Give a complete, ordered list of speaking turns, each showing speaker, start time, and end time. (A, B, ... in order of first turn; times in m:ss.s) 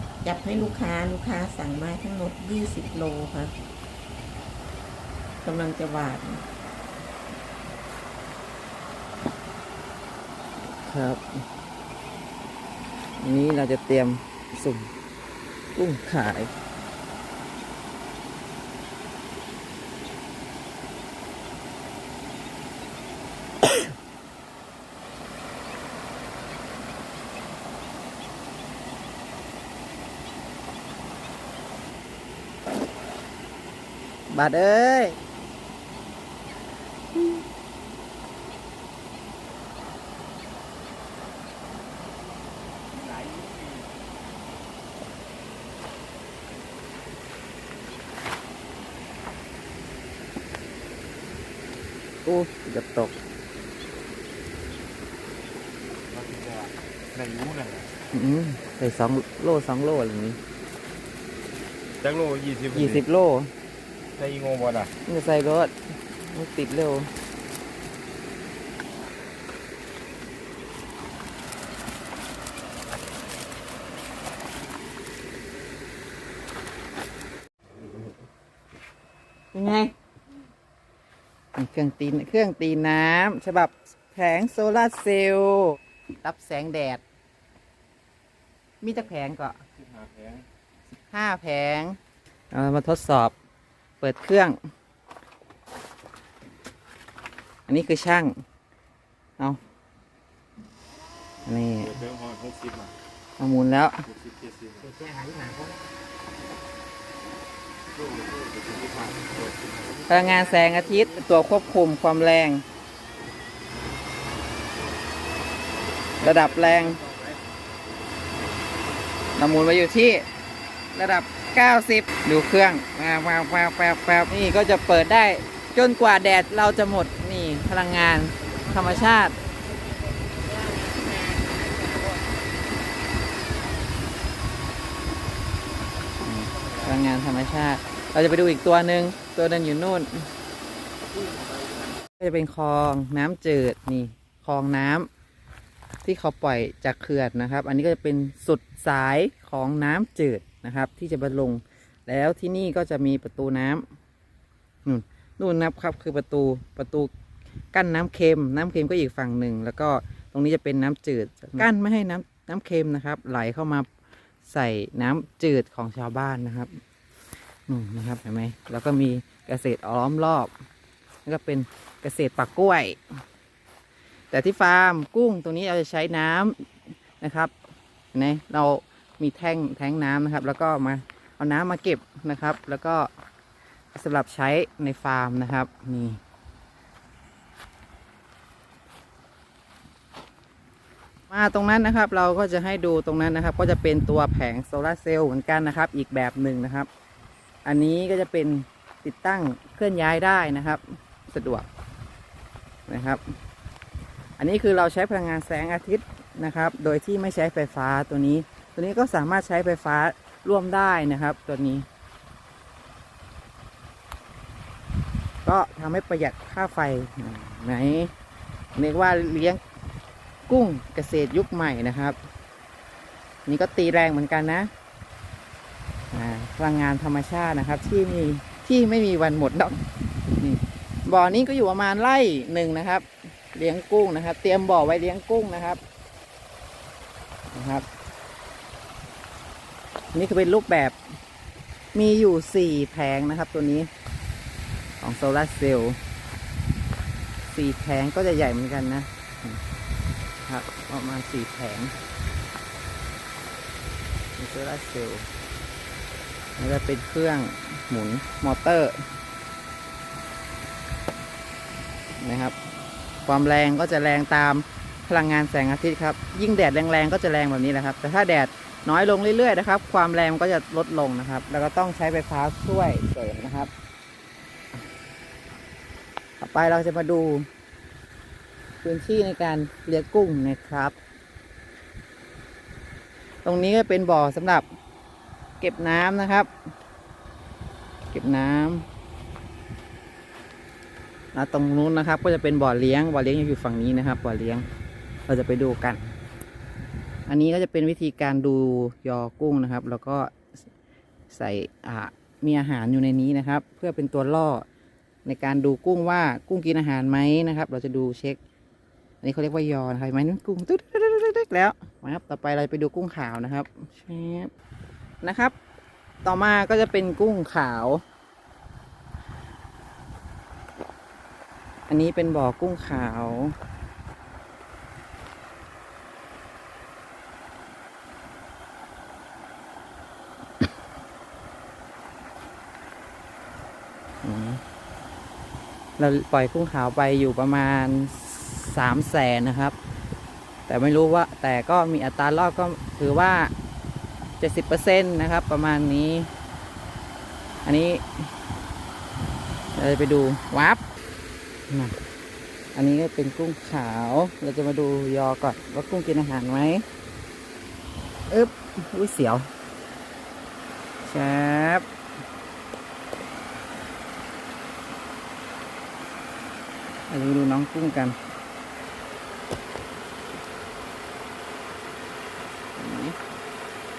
0:00.2-0:03.5 A
0:05.4-0:06.4 A
0:10.8-0:11.4 B
0:13.2-0:14.9 B
0:15.8-0:16.5 B
0:34.3-0:35.2 B
0:43.0-0:43.8 C
0:52.2-0:53.2 B
0:56.1-0:57.9 C
0:58.1-1:00.4 B
1:02.0-1:03.0 C
1:02.7-1:03.5 B
1:04.2-1:04.9 C
1:05.0-1:07.1 B
1:19.5-1:19.9 B
1:21.6-1:27.0 B
1:28.8-1:29.6 B
1:29.8-1:30.4 C
1:30.9-1:32.0 B
1:32.5-1:33.3 B
1:34.0-1:34.6 B
1:37.7-1:38.4 B
1:41.5-1:42.0 B
1:41.8-1:42.9 C
1:43.4-1:44.0 B
1:44.1-1:44.8 C
1:44.8-1:45.8 B
1:48.0-1:50.1 C
1:50.1-1:52.6 B
1:56.2-1:57.4 C
1:56.2-1:57.0 B
1:59.4-2:00.2 B
2:01.0-2:09.4 B
2:10.5-2:12.1 A
2:16.2-2:20.3 B
2:22.2-2:25.1 B
2:26.0-2:33.8 B
2:34.8-2:37.1 B
2:37.7-2:43.9 B
2:44.5-2:46.7 B
2:47.7-2:50.5 B
2:51.3-2:53.0 B
2:54.3-2:56.6 B
2:57.2-2:57.5 B
2:58.1-3:03.1 B
3:03.9-3:06.2 B
3:11.3-3:16.9 B
3:17.6-3:21.7 B
3:22.9-3:23.2 B
3:24.4-3:31.9 B
3:35.4-3:38.1 B
3:38.8-3:39.6 B
3:40.5-3:42.2 B
3:43.5-3:44.7 B
3:46.1-3:49.9 B
3:50.4-3:55.8 B
3:57.5-3:57.8 B
4:00.1-4:01.0 B
4:01.9-4:03.9 B
4:05.0-4:06.0 B
4:07.5-4:09.6 B
4:10.5-4:11.9 B
4:14.4-4:15.3 B
4:16.6-4:19.0 B
4:22.2-4:22.6 B
4:23.3-4:33.7 B
4:36.4-4:37.5 B
4:38.8-4:41.0 B
4:43.4-4:44.6 B
4:45.6-4:46.5 B
4:48.1-4:48.8 B
4:51.3-4:54.6 B
4:55.3-4:56.1 B
4:57.3-5:00.4 B
5:01.3-5:04.7 B
5:05.2-5:08.4 B
5:09.2-5:14.5 B
5:15.2-5:15.6 B
5:16.2-5:18.0 B
5:21.9-5:23.6 B
5:34.2-5:34.6 B
5:36.0-5:39.8 B
5:40.7-5:43.5 B
5:44.4-5:46.3 B
5:47.6-5:48.3 B
5:49.8-5:50.8 B
5:51.7-5:52.0 B
5:52.8-5:56.8 B
5:58.3-5:59.5 B
6:01.0-6:01.8 B
6:07.1-6:08.2 B
6:12.8-6:13.2 B